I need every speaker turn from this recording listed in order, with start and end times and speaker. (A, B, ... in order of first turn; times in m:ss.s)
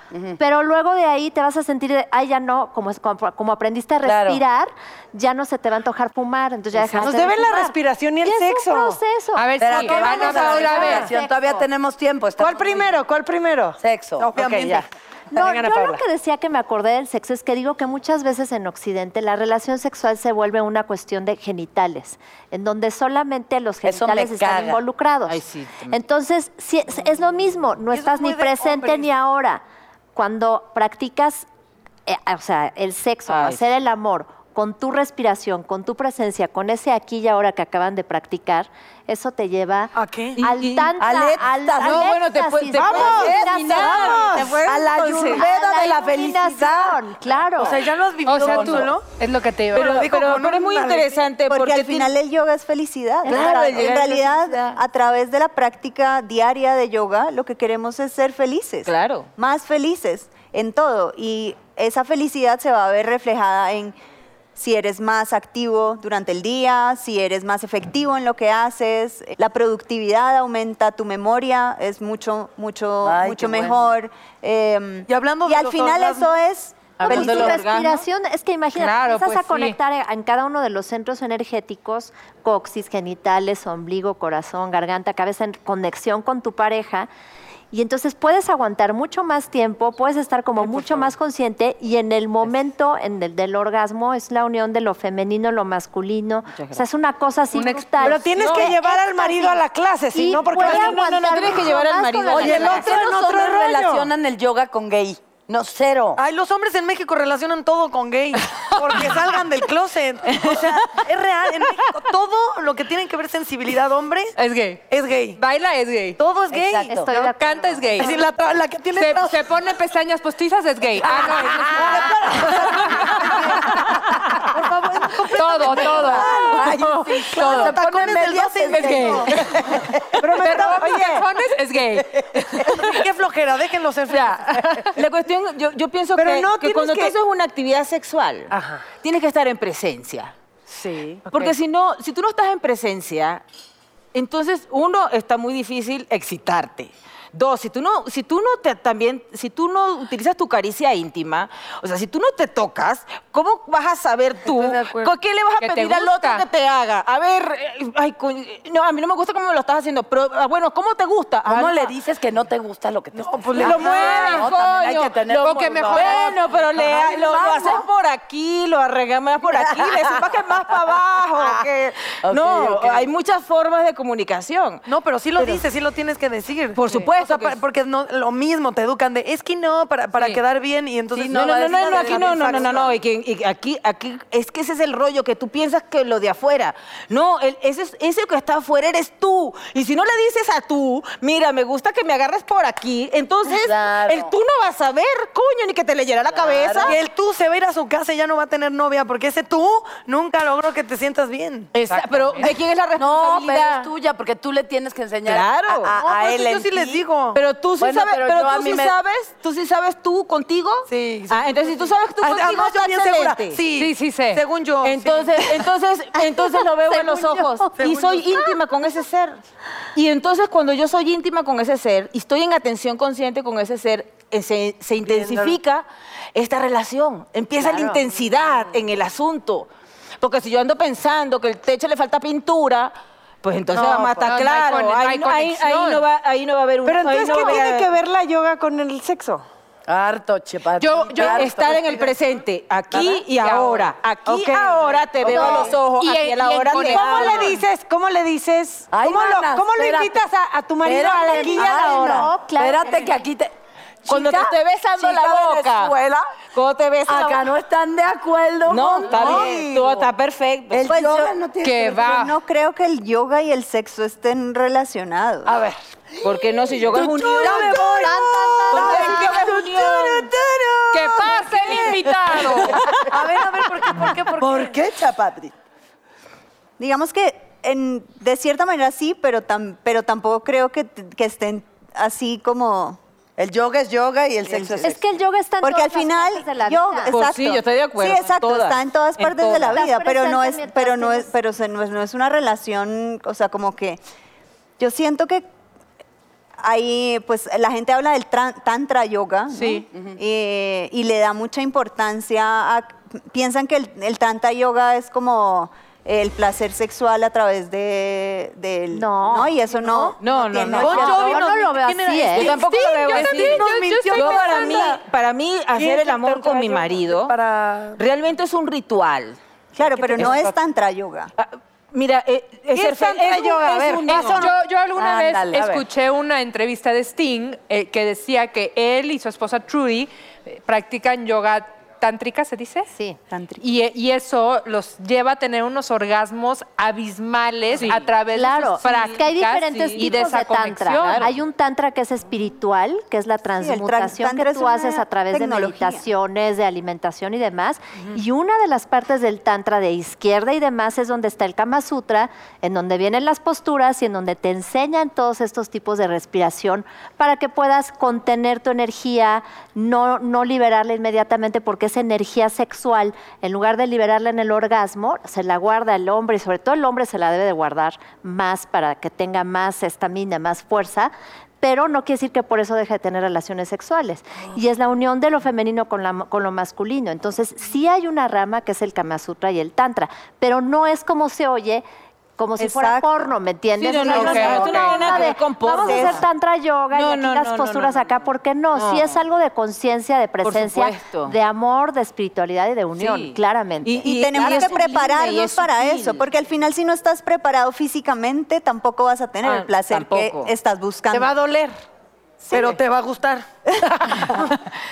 0:00.1-0:00.4 A
0:00.4-0:11.4 B
0:04.0-0:04.4 A
0:06.7-0:09.0 C
0:09.3-0:11.1 D
0:09.6-0:12.9 A
0:10.4-0:11.1 C
0:12.4-0:13.8 C
0:13.8-0:14.3 A
0:14.2-0:14.8 E
0:14.3-0:16.0 C
0:15.3-0:29.6 B
0:23.8-0:24.8 A
0:25.3-0:26.0 F
0:27.9-0:29.1 E
0:30.1-0:31.5 B
0:32.1-0:44.3 B
0:33.3-0:33.6 F
0:39.9-0:40.4 E
0:40.4-0:40.9 F
0:41.0-0:42.1 A
0:41.8-0:45.4 F
0:42.8-0:47.0 A
0:44.0-0:44.6 C
0:45.2-0:47.8 B
0:47.6-0:49.1 E
0:48.2-0:49.9 D
0:48.4-0:48.9 A
0:49.7-0:51.2 E
0:49.7-0:52.1 F
0:51.5-1:03.9 G
0:53.2-0:53.9 B
0:53.2-0:54.8 F
0:58.8-0:59.3 F
1:04.6-1:17.6 G
1:13.0-1:13.9 A
1:15.1-1:16.3 E
1:17.0-1:18.0 F
1:17.0-1:27.1 B
1:18.7-1:19.8 D
1:27.7-1:42.8 B
1:30.7-1:31.0 C
1:36.5-1:36.8 F
1:37.5-1:38.8 D
1:38.0-1:41.4 C
1:40.6-1:43.0 F
1:42.3-1:46.2 A
1:42.5-1:44.1 C
1:46.2-1:54.3 E
1:50.4-1:50.8 A
1:54.4-1:54.8 D
1:54.9-1:55.4 E
1:55.4-1:56.2 D
1:56.2-1:57.0 E
1:56.5-1:57.1 A
1:56.9-1:58.1 B
1:57.1-1:58.1 D
1:58.0-1:59.5 E
1:58.9-2:03.9 D
2:01.0-2:06.5 E
2:05.3-2:06.7 D
2:05.6-2:10.5 A
2:06.7-2:07.2 C
2:07.3-2:09.3 E
2:07.4-2:07.7 D
2:08.7-2:09.3 D
2:10.2-2:11.2 C
2:10.3-2:12.4 D
2:12.4-2:12.8 A
2:12.7-2:14.6 E
2:14.1-2:14.9 C
2:14.9-2:20.3 F
2:16.2-2:17.1 C
2:18.5-2:18.9 C
2:20.7-2:21.3 C
2:21.3-2:23.4 F
2:24.1-2:41.9 F
2:34.4-2:35.1 E
2:35.6-2:36.4 D
2:41.4-2:47.9 A
2:43.1-2:44.3 E
2:43.6-2:45.1 F
2:44.1-2:46.4 D
2:45.9-2:54.8 F
2:49.4-2:50.2 A
2:52.2-2:53.1 A
2:54.8-3:02.9 E
2:56.7-2:57.6 F
3:01.1-3:02.9 A
3:01.3-3:17.0 F
3:13.4-3:14.3 A
3:16.3-3:16.9 A
3:16.8-3:21.7 E
3:21.8-3:22.1 A
3:21.9-3:23.9 F
3:21.9-3:22.5 D
3:23.0-3:27.0 A
3:25.2-3:25.9 F
3:26.0-3:27.4 E
3:27.3-3:33.6 F
3:27.8-3:29.0 A
3:30.9-3:35.6 E
3:33.7-3:34.4 D
3:34.8-3:39.4 F
3:36.4-3:37.7 B
3:37.8-3:38.4 E
3:39.9-3:57.9 F
3:45.0-3:45.6 A
3:47.6-3:48.0 B
3:53.7-3:56.0 D
3:56.8-3:59.4 C
3:59.9-4:02.1 A
4:00.8-4:01.5 D
4:01.2-4:07.6 F
4:02.9-4:03.2 A
4:03.3-4:03.9 D
4:04.3-4:04.9 C
4:05.2-4:05.8 A
4:05.3-4:05.7 B
4:05.3-4:07.6 D
4:06.8-4:12.3 C
4:08.9-4:10.2 A
4:10.8-4:13.5 A
4:11.2-4:13.2 B
4:14.0-4:16.2 A
4:14.1-4:15.9 F
4:16.5-4:17.4 F
4:17.0-4:20.1 A
4:18.7-4:21.0 F
4:20.7-4:22.2 A
4:20.9-4:21.3 G
4:21.6-4:22.3 D
4:22.1-4:25.6 G
4:25.4-4:25.7 A
4:26.2-4:28.0 F
4:26.8-4:33.2 A
4:28.0-4:29.2 B
4:28.7-4:30.3 F
4:30.9-4:33.0 D
4:33.0-4:34.8 E
4:34.4-4:35.5 A
4:36.8-4:43.0 G
4:43.4-4:45.0 A
4:44.5-4:44.9 G
4:44.8-4:47.1 B
4:45.6-4:54.0 G
4:47.1-4:49.8 F
4:49.7-4:51.3 B
4:54.8-4:55.4 G
4:56.6-5:11.4 G
4:59.5-4:59.8 D
5:08.9-5:09.5 B
5:09.8-5:10.1 E
5:10.2-5:11.4 F
5:10.6-5:15.0 E
5:10.8-5:12.5 B
5:12.4-5:17.4 F
5:12.5-5:14.9 D
5:15.8-5:18.0 E
5:18.0-5:19.4 F
5:19.8-5:21.3 G
5:19.8-5:20.5 A
5:21.4-5:24.5 F
5:22.8-5:23.7 E
5:24.1-5:32.9 D
5:24.1-5:25.8 A
5:33.3-5:33.6 G
5:33.6-5:41.3 D
5:37.8-5:38.1 F
5:38.3-6:21.8 B
5:39.8-5:40.3 F
5:41.0-5:41.3 F
5:43.6-5:46.0 G
6:22.4-6:34.1 B
6:22.6-6:23.1 G
6:23.8-6:26.2 F
6:24.1-6:25.0 D
6:24.1-6:26.2 G
6:26.9-6:29.2 F
6:30.4-6:31.3 F
6:33.0-6:36.2 F
6:34.0-6:41.4 G
6:39.4-6:40.5 F
6:41.1-6:41.8 C
6:42.5-6:43.5 E